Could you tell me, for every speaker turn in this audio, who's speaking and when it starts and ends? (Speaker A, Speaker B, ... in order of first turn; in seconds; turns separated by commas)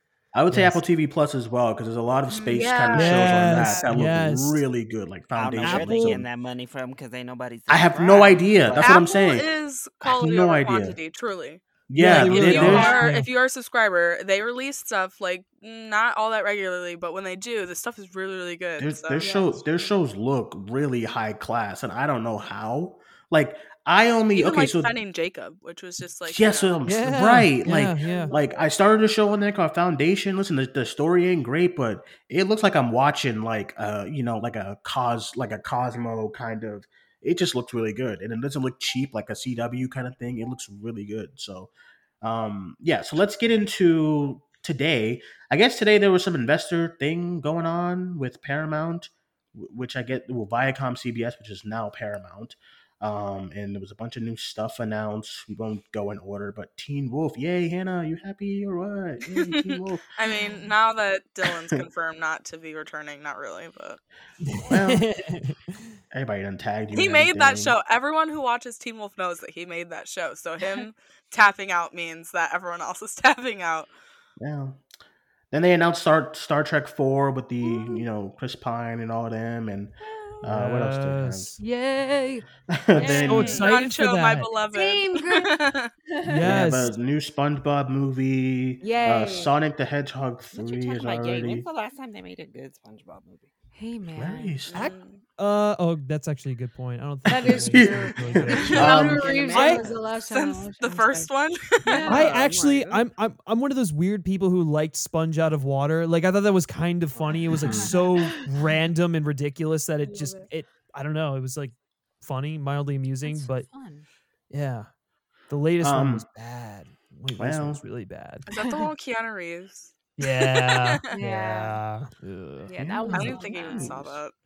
Speaker A: 0.3-6.3, Speaker B: 0.5-0.8, Speaker C: 2.3-2.8, Speaker D: 2.5-3.8, Speaker B: 3.0-4.6, Speaker C: 3.6-3.8, Speaker E: 5.3-9.0, Speaker B: 5.6-6.2, Speaker A: 7.7-9.5, Speaker D: 8.8-11.6, Speaker A: 10.0-10.9, Speaker A: 11.9-13.0, Speaker B: 11.9-13.3, Speaker D: 12.2-19.3, Speaker C: 12.6-13.1, Speaker A: 18.8-24.9, Speaker C: 19.2-20.0, Speaker D: 24.3-26.8, Speaker A: 26.3-41.7, Speaker B: 26.8-28.2, Speaker C: 28.0-28.7, Speaker A: 42.2-60.1, Speaker D: 59.4-64.0, Speaker A: 61.5-61.8, Speaker B: 64.4-65.8, Speaker A: 64.6-65.1, Speaker A: 66.1-67.8, Speaker D: 66.9-73.9, Speaker A: 74.4-74.8, Speaker A: 75.5-81.5, Speaker C: 77.6-78.0, Speaker C: 80.1-80.4, Speaker B: 80.5-81.6, Speaker C: 81.6-82.5, Speaker A: 82.7-83.6, Speaker E: 83.0-83.7, Speaker B: 83.2-84.5, Speaker C: 83.3-83.6, Speaker D: 83.4-85.9, Speaker C: 84.7-85.5, Speaker C: 86.1-86.8, Speaker B: 86.2-86.9, Speaker A: 86.4-91.7, Speaker C: 88.8-89.5, Speaker E: 90.5-93.5, Speaker C: 93.7-94.6, Speaker A: 94.1-94.9, Speaker D: 94.7-95.2, Speaker B: 94.7-99.8, Speaker C: 97.3-101.3, Speaker A: 97.7-99.3, Speaker E: 98.4-100.0, Speaker D: 100.2-102.0, Speaker C: 101.8-102.3, Speaker E: 101.9-103.0, Speaker B: 102.0-113.7, Speaker C: 107.1-108.5, Speaker A: 107.5-107.9, Speaker C: 110.0-110.5, Speaker C: 113.2-114.1, Speaker B: 114.5-114.9, Speaker B: 115.5-118.5, Speaker A: 115.8-116.3, Speaker A: 117.4-117.8, Speaker D: 118.5-121.0, Speaker B: 120.2-122.7, Speaker C: 121.1-121.8, Speaker C: 122.6-124.0, Speaker A: 122.7-124.2, Speaker D: 123.1-124.3